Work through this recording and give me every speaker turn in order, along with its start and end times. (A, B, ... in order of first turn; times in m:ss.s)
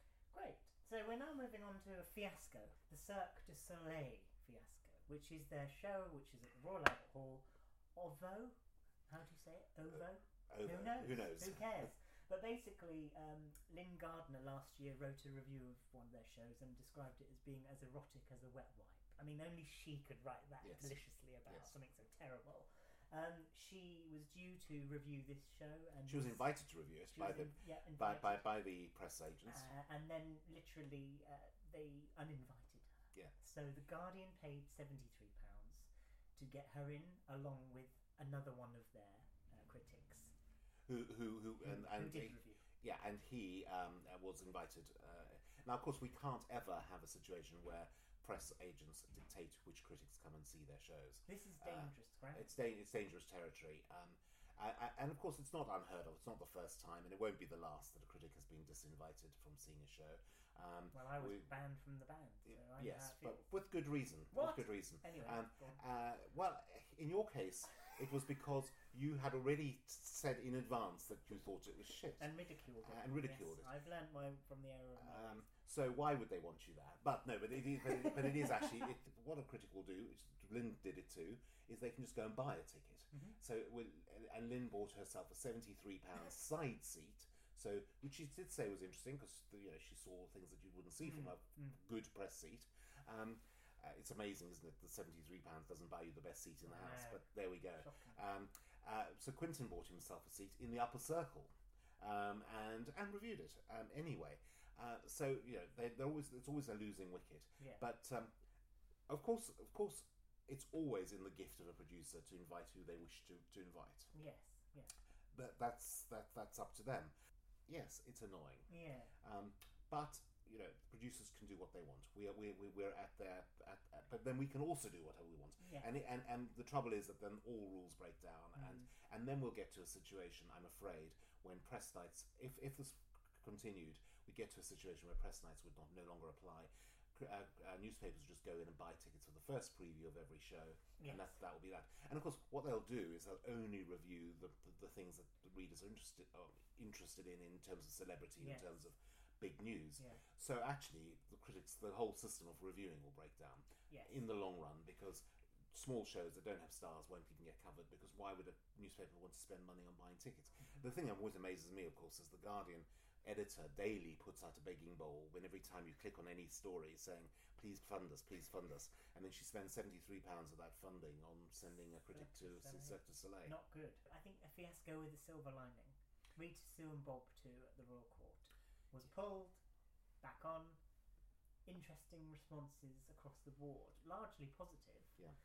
0:00.3-0:26.4 A
0:10.5-0:11.9 B
0:20.6-0:21.0 B
0:26.1-0:29.7 B
0:27.1-0:28.5 A
0:29.4-0:40.3 A
0:40.8-1:01.5 B
0:41.6-0:42.6 A
0:51.2-0:52.5 A
1:00.9-1:03.5 A
1:02.5-1:12.3 B
1:04.3-1:05.8 A
1:12.2-1:15.4 A
1:12.8-1:13.7 B
1:15.0-1:48.3 B
1:23.1-1:23.4 A
1:31.0-1:31.8 A
1:36.6-1:38.2 A
1:49.1-1:54.1 B
1:54.1-1:54.9 A
1:55.3-1:57.1 B
1:57.7-1:58.7 B
1:58.7-1:59.1 A
1:59.2-2:53.5 B
2:05.6-2:05.9 A
2:08.6-2:08.9 A
2:21.0-2:21.3 A
2:28.4-2:28.7 A
2:33.9-2:34.2 A
2:52.1-2:59.6 A
3:00.2-3:00.8 A
3:01.6-3:05.1 A